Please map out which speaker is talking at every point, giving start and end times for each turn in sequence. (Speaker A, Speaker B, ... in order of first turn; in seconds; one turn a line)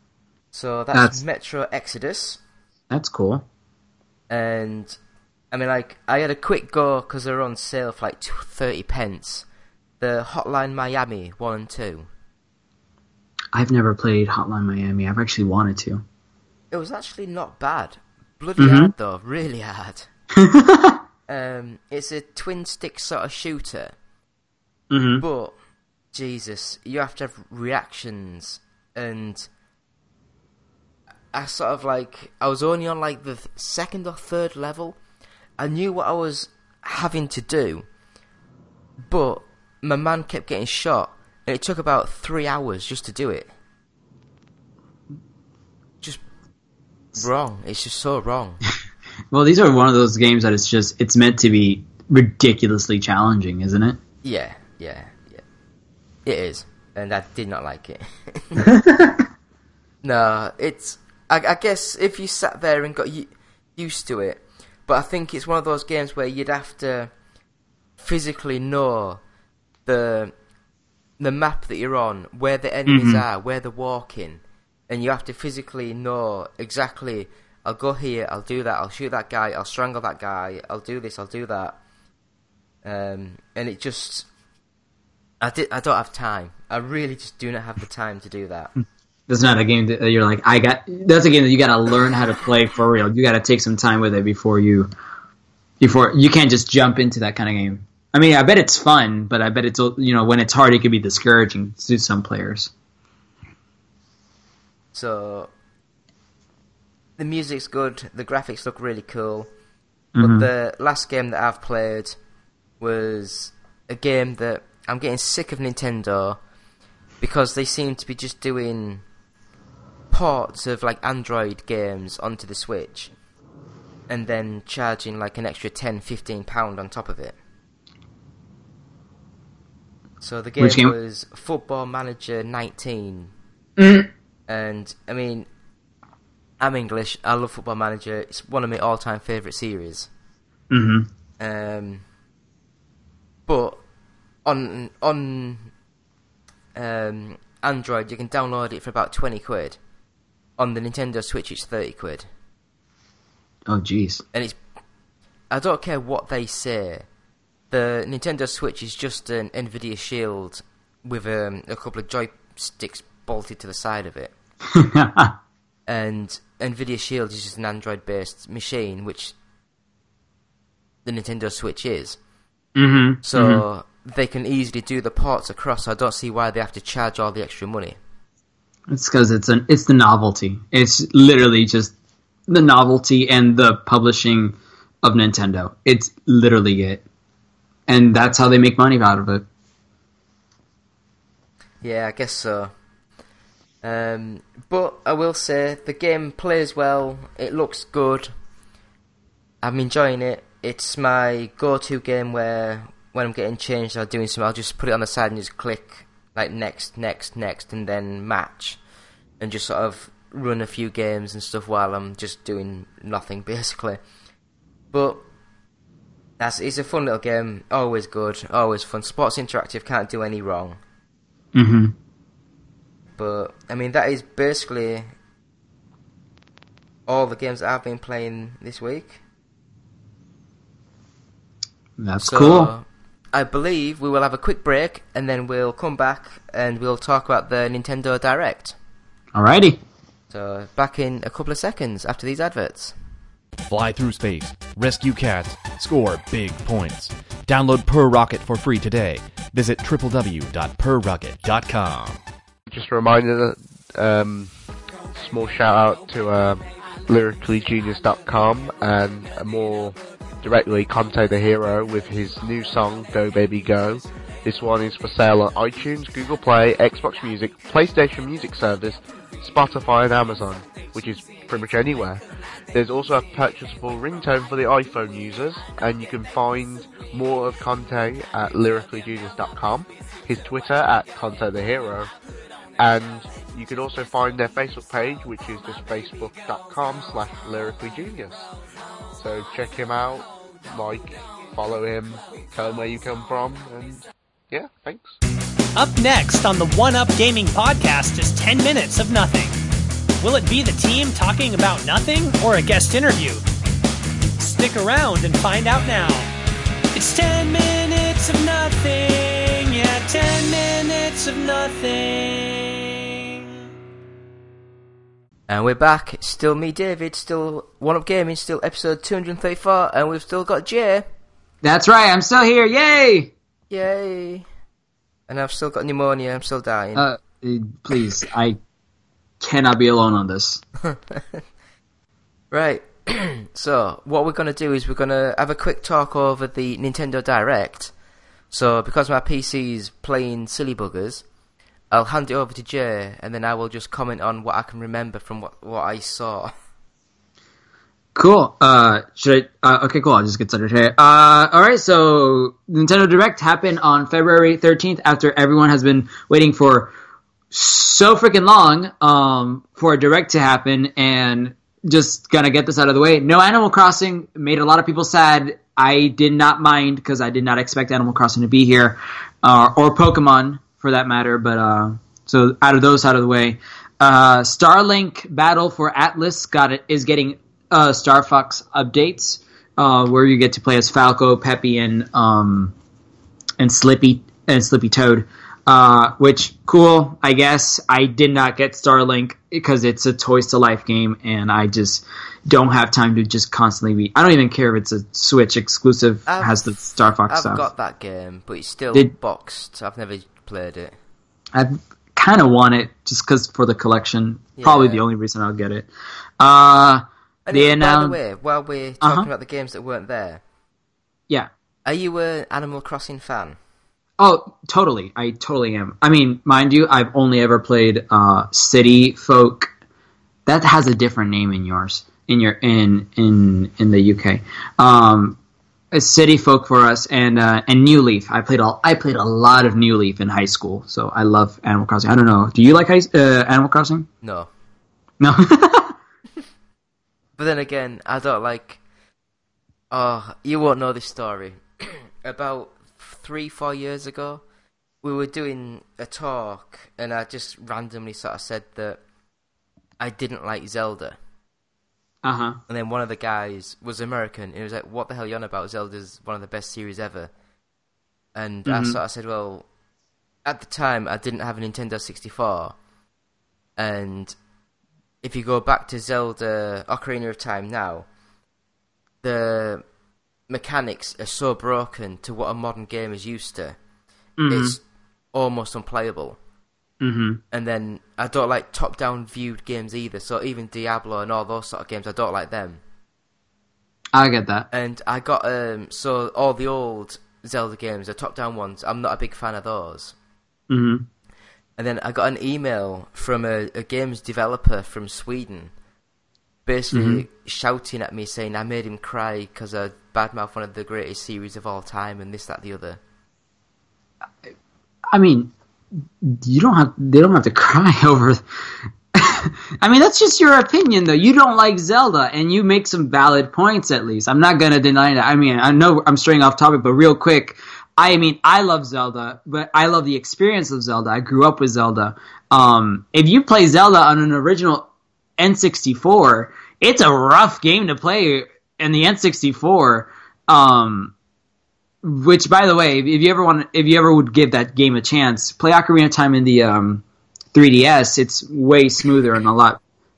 Speaker A: 0.5-2.4
Speaker B: 0.9-1.2
Speaker B: 2.9-3.4
Speaker A: 4.3-5.0
Speaker A: 5.5-9.4
Speaker A: 10.0-12.1
Speaker B: 13.5-16.0
Speaker A: 16.7-20.1
Speaker B: 18.6-18.9
Speaker B: 20.4-21.0
Speaker A: 21.3-23.9
Speaker B: 24.9-25.2
Speaker A: 25.2-25.5
Speaker A: 26.1-29.5
Speaker A: 31.3-35.0
Speaker A: 35.6-37.9
Speaker A: 39.0-43.5
Speaker A: 47.1-48.6
Speaker B: 49.3-54.0
Speaker A: 54.2-55.4
Speaker A: 56.2-58.6
Speaker B: 58.7-59.1
Speaker A: 60.0-67.1
Speaker A: 68.0-69.2
Speaker A: 69.8-70.3
Speaker A: 71.2-81.8
Speaker B: 72.9-73.2
Speaker A: 82.8-84.3
Speaker A: 85.4-88.7
Speaker B: 89.3-94.9
Speaker B: 95.8-102.7
Speaker A: 104.9-105.5
Speaker A: 107.2-109.5
Speaker B: 110.1-110.5
Speaker A: 110.2-112.2
Speaker A: 112.8-116.4
Speaker A: 117.2-119.0
Speaker A: 120.1-123.1
Speaker A: 124.1-127.4
Speaker A: 130.2-133.3
Speaker B: 130.6-130.9
Speaker B: 133.8-134.1
Speaker A: 134.5-135.5
Speaker A: 136.6-140.1
Speaker B: 140.7-141.1
Speaker A: 141.4-142.0
Speaker A: 143.5-143.8
Speaker A: 144.4-145.7
Speaker A: 146.7-149.8
Speaker A: 150.6-152.3
Speaker B: 153.7-154.2
Speaker A: 154.3-154.6
Speaker A: 155.5-157.1
Speaker A: 157.7-164.3
Speaker B: 164.7-165.3
Speaker A: 165.9-169.3
Speaker A: 171.0-172.2
Speaker B: 172.8-173.6
Speaker A: 173.2-178.0
Speaker B: 178.9-181.9
Speaker B: 182.5-187.0
Speaker B: 187.9-189.4
Speaker A: 191.8-192.7
Speaker A: 193.8-198.3
Speaker A: 199.6-208.8
Speaker A: 209.4-214.0
Speaker A: 214.9-215.2
Speaker A: 216.4-220.8
Speaker B: 221.5-221.9
Speaker A: 223.2-225.1
Speaker A: 227.1-229.2
Speaker B: 232.0-232.7
Speaker A: 232.2-238.7
Speaker B: 239.3-239.8
Speaker A: 240.3-242.9
Speaker C: 243.7-252.2
Speaker D: 252.7-254.5
Speaker D: 255.1-272.2
Speaker D: 272.7-282.1
Speaker D: 282.8-288.4
Speaker D: 289.2-295.2
Speaker E: 295.8-299.6
Speaker E: 300.2-303.4
Speaker E: 304.4-306.3
Speaker E: 306.9-313.1
Speaker A: 315.5-321.1
Speaker B: 321.6-323.3
Speaker A: 323.7-324.4
Speaker A: 325.3-327.1
Speaker B: 326.9-328.6
Speaker B: 329.4-330.6
Speaker A: 330.9-331.4
Speaker A: 332.5-337.9
Speaker A: 338.5-341.2
Speaker A: 341.9-346.5
Speaker B: 348.1-356.9
Speaker B: 357.5-382.7
Speaker B: 383.6-397.6
Speaker A: 396.2-400.9
Speaker B: 401.5-405.9
Speaker A: 404.6-405.0
Speaker B: 406.4-408.2
Speaker A: 407.4-410.4
Speaker B: 409.0-409.3
Speaker A: 411.8-413.6
Speaker B: 414.2-419.7
Speaker B: 420.4-425.4
Speaker B: 425.9-434.1
Speaker A: 434.2-434.5
Speaker B: 435.2-435.9
Speaker A: 437.4-438.8
Speaker A: 439.9-444.4
Speaker A: 445.0-449.0
Speaker A: 450.0-451.2
Speaker B: 452.2-452.6
Speaker A: 452.7-457.3
Speaker A: 458.3-459.7
Speaker B: 458.6-459.0
Speaker A: 460.4-462.8
Speaker A: 463.8-464.3
Speaker A: 465.2-468.1
Speaker A: 469.2-469.8
Speaker A: 470.5-473.8
Speaker B: 474.4-474.8
Speaker A: 474.5-474.8
Speaker A: 475.3-476.4
Speaker B: 477.0-477.4
Speaker A: 477.5-482.8
Speaker B: 484.1-484.7
Speaker A: 484.7-490.1
Speaker B: 490.7-491.0
Speaker A: 491.8-495.7
Speaker A: 496.6-503.0
Speaker B: 496.9-497.2
Speaker B: 505.1-505.5
Speaker B: 506.2-508.4
Speaker B: 509.1-524.9
Speaker B: 525.4-531.1
Speaker B: 532.0-537.0
Speaker B: 537.5-539.8